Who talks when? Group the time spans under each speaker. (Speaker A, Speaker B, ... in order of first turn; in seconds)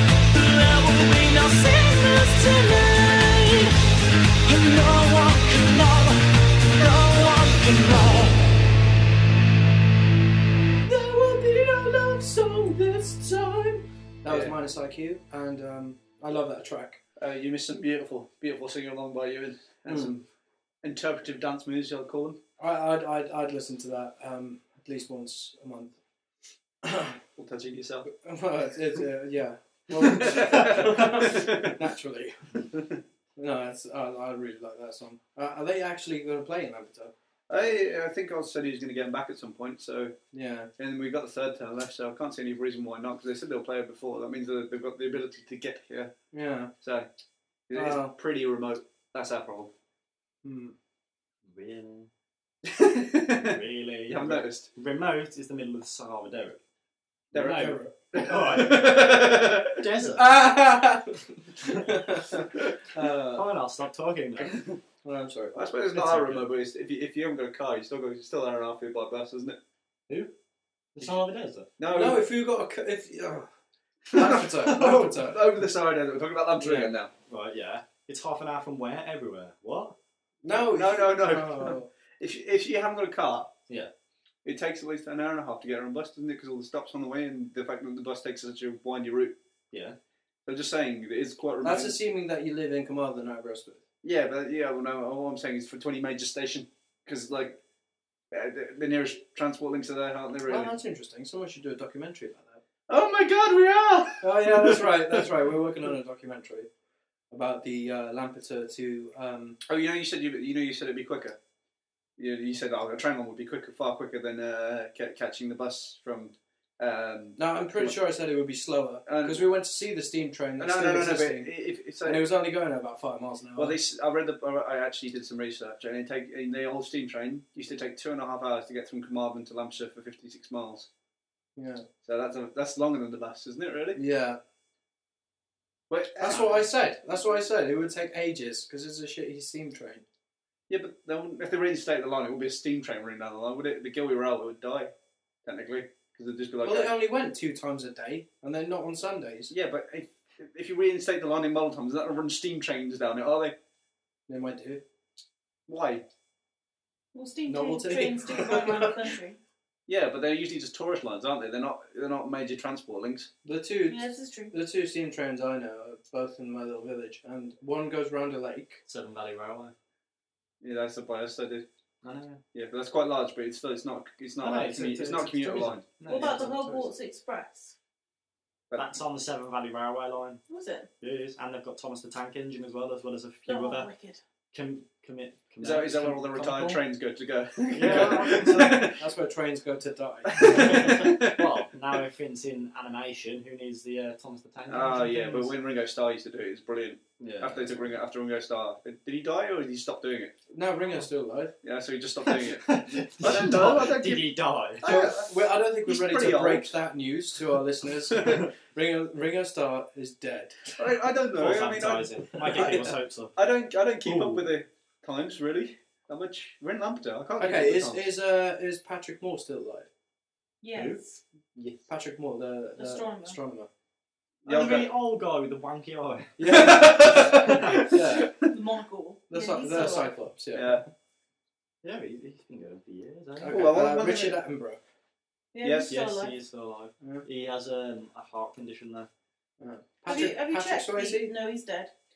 Speaker A: 0.3-3.7, 4.5-8.5
Speaker B: 10.8-17.0, 19.9-20.1, 22.6-25.9, 26.8-27.2, 28.1-32.7, 33.4-37.1, 40.3-40.7, 46.3-46.7, 47.7-48.1, 50.4-50.7, 57.4-57.9, 60.1-63.4, 65.0-65.6, 71.9-73.5, 74.1-75.4, 76.6-76.9, 80.4-81.9, 91.6-93.8, 100.5-102.6, 104.2-106.7, 107.3-109.6, 117.4-123.8, 131.6-131.8, 133.9-134.4, 136.2-140.0, 146.6-149.5, 154.3-154.8, 157.5-159.0, 163.4-168.8, 188.9-190.9, 200.5-201.5, 204.8-210.8, 217.4-219.9, 221.9-223.7, 226.4-228.3, 229.3-230.9, 233.4-234.8, 239.6-241.3
Speaker C: 14.2-14.5, 17.2-20.2, 20.8-22.4, 27.4-28.1, 30.0-31.8, 37.5-40.1, 40.8-46.1, 46.8-47.1, 47.7-49.7, 52.6-54.7, 57.3-59.8, 62.4-62.7, 64.4-64.8, 65.5-69.6, 71.8-72.3, 74.1-77.1, 80.5-83.5, 84.4-89.3, 90.5-92.0, 94.0-97.6, 98.3-100.7, 102.9-105.3, 109.6-111.4, 112.2-118.0, 119.0-119.5, 120.6-122.3, 123.5-130.9, 132.0-134.0, 135.9-136.7, 140.7-144.9, 145.4-146.9, 149.5-153.6, 155.7-156.1, 159.9-163.3, 170.6-171.7, 172.5-176.0, 178.7-178.9, 185.6-189.0, 190.3-191.6, 194.7-200.4, 201.6-206.8, 208.1-208.4, 210.8-218.1, 221.5-221.8, 224.4-224.9, 226.5-228.5, 230.5-230.8, 233.4-234.4, 235.6-235.9
Speaker D: 51.5-52.1, 53.3-56.6, 57.3-60.4, 63.3-64.6, 65.9-66.5, 70.9-71.7, 77.3-80.0, 168.9-169.7, 172.0-172.4, 174.4-176.8, 178.7-180.4, 181.0-183.9, 184.5-186.8, 187.7-188.9, 190.4-195.5, 197.2-197.8, 202.2-204.8, 211.3-213.4, 214.0-214.5, 220.7-221.0, 224.4-227.9, 231.8-233.7, 235.9-239.1
Speaker E: 157.1-159.4, 163.9-164.5, 176.1-177.7, 180.5-180.9, 183.5-184.2, 220.6-221.2, 222.8-223.4, 228.5-230.1, 235.5-236.3, 240.1-241.9